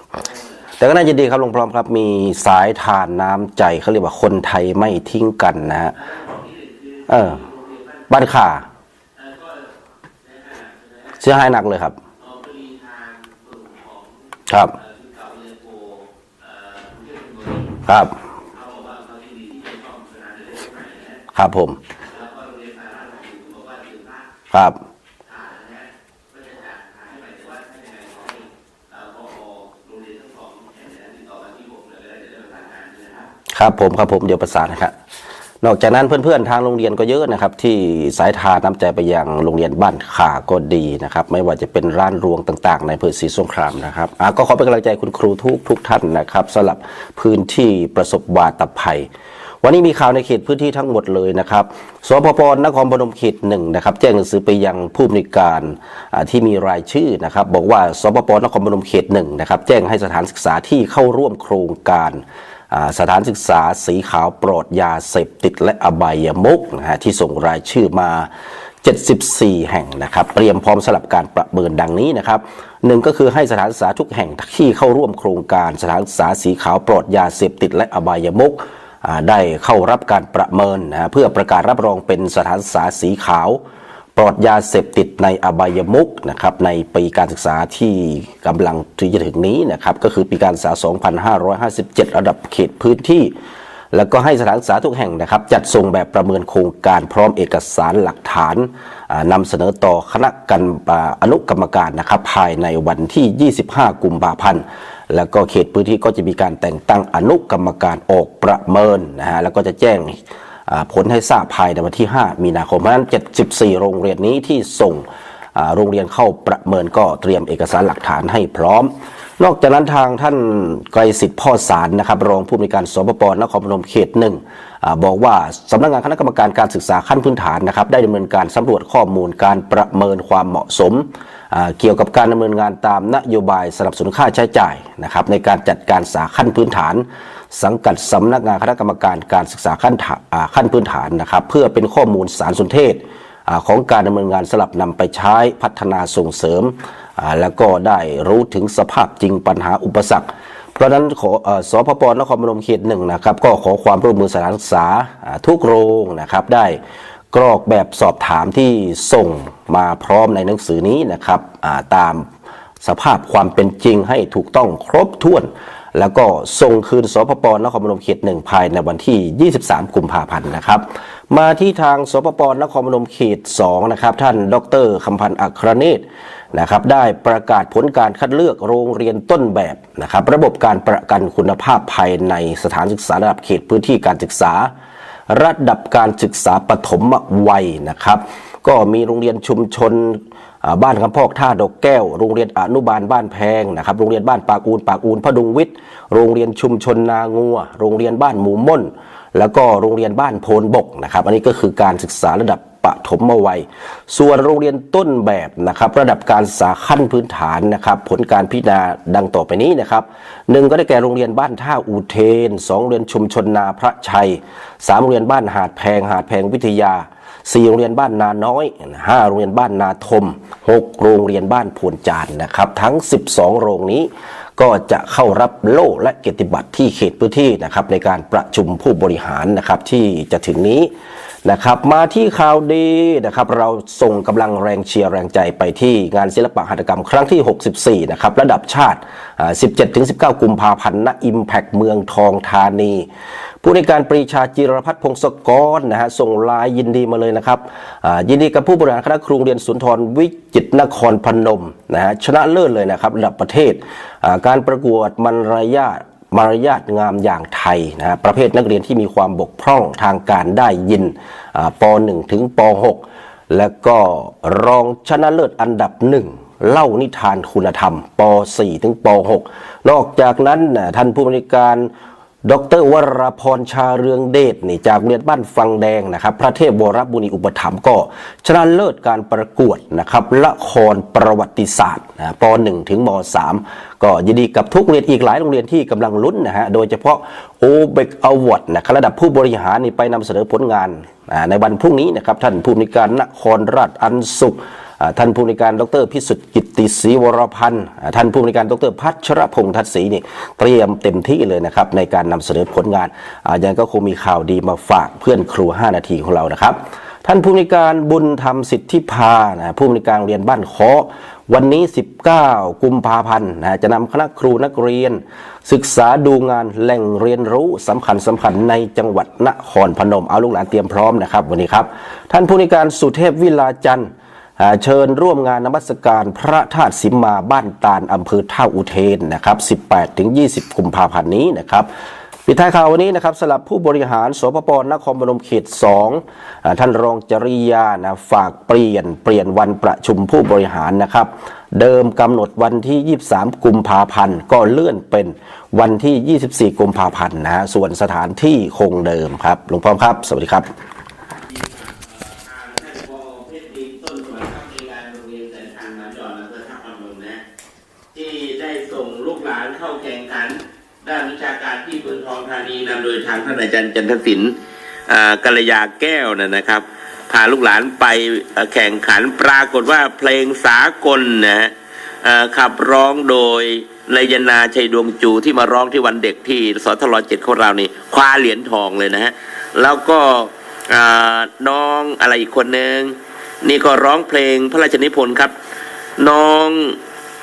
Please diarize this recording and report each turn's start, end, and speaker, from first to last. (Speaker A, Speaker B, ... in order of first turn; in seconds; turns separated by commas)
Speaker A: 0.1-0.8, Speaker B: 0.8-5.9, Speaker A: 5.9-8.2, Speaker B: 7.1-7.4, Speaker B: 8.1-8.6, Speaker A: 9.2-11.2, Speaker B: 11.2-12.0, Speaker A: 12.2-17.8, Speaker B: 14.5-14.8, Speaker B: 17.9-18.1, Speaker A: 18.5-21.2, Speaker B: 21.3-21.8, Speaker A: 22.1-24.3, Speaker B: 24.5-24.8, Speaker A: 25.2-33.3, Speaker B: 33.5-34.9, Speaker B: 35.6-49.1, Speaker B: 49.6-68.3, Speaker B: 68.8-83.6, Speaker B: 84.2-93.3, Speaker B: 93.9-156.8, Speaker B: 157.3-162.3, Speaker B: 162.8-184.7, Speaker B: 185.3-230.9, Speaker B: 231.4-243.1, Speaker B: 243.6-271.9, Speaker B: 272.4-331.9, Speaker B: 332.4-350.7, Speaker A: 351.5-357.4, Speaker A: 358.1-364.5, Speaker A: 365.1-385.5, Speaker A: 386.2-387.0